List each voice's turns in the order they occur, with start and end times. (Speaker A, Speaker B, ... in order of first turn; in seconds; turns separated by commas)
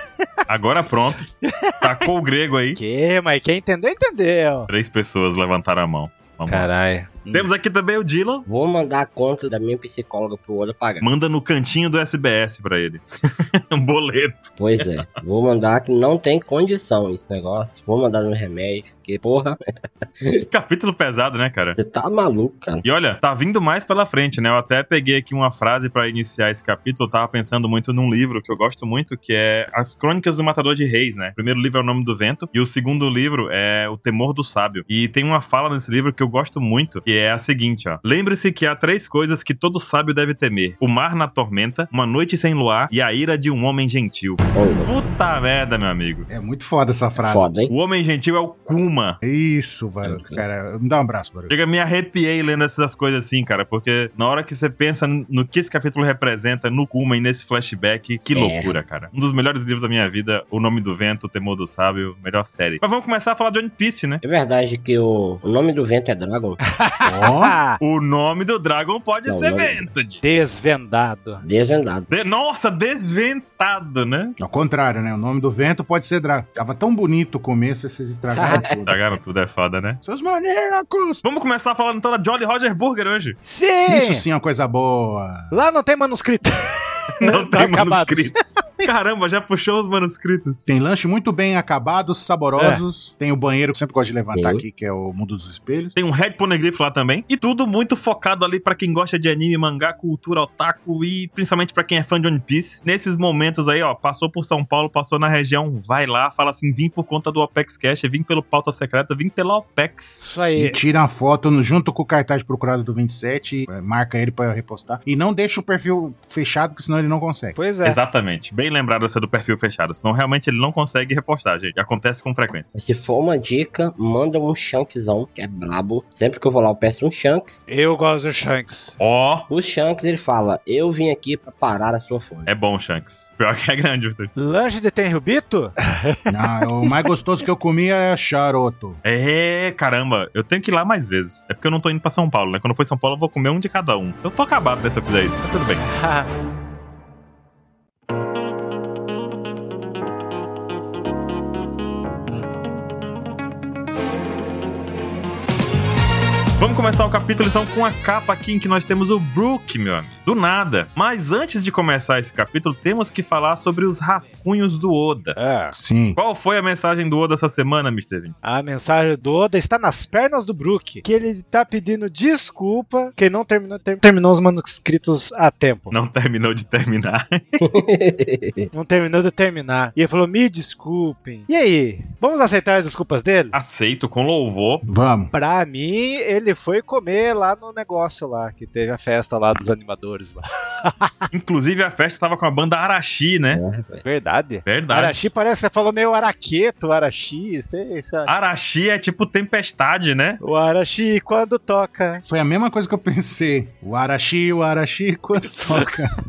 Speaker A: 0.5-1.3, Speaker B: 1.4-2.1, Speaker A: 1.8-2.8, Speaker B: 2.8-4.7, Speaker A: 4.7-6.7, Speaker B: 6.5-7.5, Speaker A: 7.3-8.4, Speaker C: 8.4-11.1, Speaker A: 11.0-14.9, Speaker C: 14.6-19.6, Speaker A: 20.5-21.8, Speaker C: 21.8-22.8, Speaker A: 22.8-46.3, Speaker C: 44.5-44.9, Speaker D: 46.3-47.5, Speaker C: 47.1-47.7, Speaker A: 47.7-49.2, Speaker D: 49.2-51.5, Speaker C: 50.0-50.4, Speaker A: 51.5-64.2, Speaker C: 58.3-58.8, Speaker C: 64.2-66.6, Speaker B: 66.8-67.8, Speaker D: 67.0-67.6, Speaker A: 67.8-70.2, Speaker C: 69.2-69.9, Speaker B: 70.2-71.4, Speaker C: 71.4-72.1, Speaker A: 72.1-74.3, Speaker D: 74.4-79.0, Speaker B: 78.3-78.6, Speaker C: 78.4-78.8, Speaker A: 78.8-80.0, Speaker D: 80.0-81.2, Speaker A: 81.2-83.4, Speaker B: 83.5-84.2, Speaker D: 83.9-85.5, Speaker B: 85.5-88.9, Speaker A: 87.2-90.7, Speaker D: 90.7-95.9, Speaker B: 92.6-92.8, Speaker C: 94.3-94.6, Speaker A: 96.0-110.3, Speaker B: 110.2-110.8, Speaker D: 110.5-117.5, Speaker B: 117.5-118.0, Speaker A: 117.8-122.7, Speaker C: 122.7-127.6, Speaker B: 127.7-129.0, Speaker A: 129.0-129.5, Speaker C: 129.5-132.5, Speaker A: 132.4-134.3, Speaker B: 134.4-137.1, Speaker D: 136.3-139.0, Speaker A: 139.0-145.8, Speaker B: 145.8-146.3, Speaker A: 156.6-165.4, Speaker B: 165.4-165.7, Speaker D: 165.7-166.2, Speaker A: 166.2-168.4, Speaker B: 168.4-175.9, Speaker A: 175.9-177.6, Speaker C: 177.6-178.7, Speaker B: 178.7-183.5, Speaker A: 183.5-184.8, Speaker D: 184.8-185.3, Speaker B: 185.3-191.1, Speaker A: 191.3-193.6, Speaker C: 193.5-194.0, Speaker B: 194.0-198.3, Speaker A: 194.7-195.2, Speaker A: 198.2-200.4, Speaker B: 200.4-202.2, Speaker D: 202.2-206.1, Speaker B: 205.5-205.9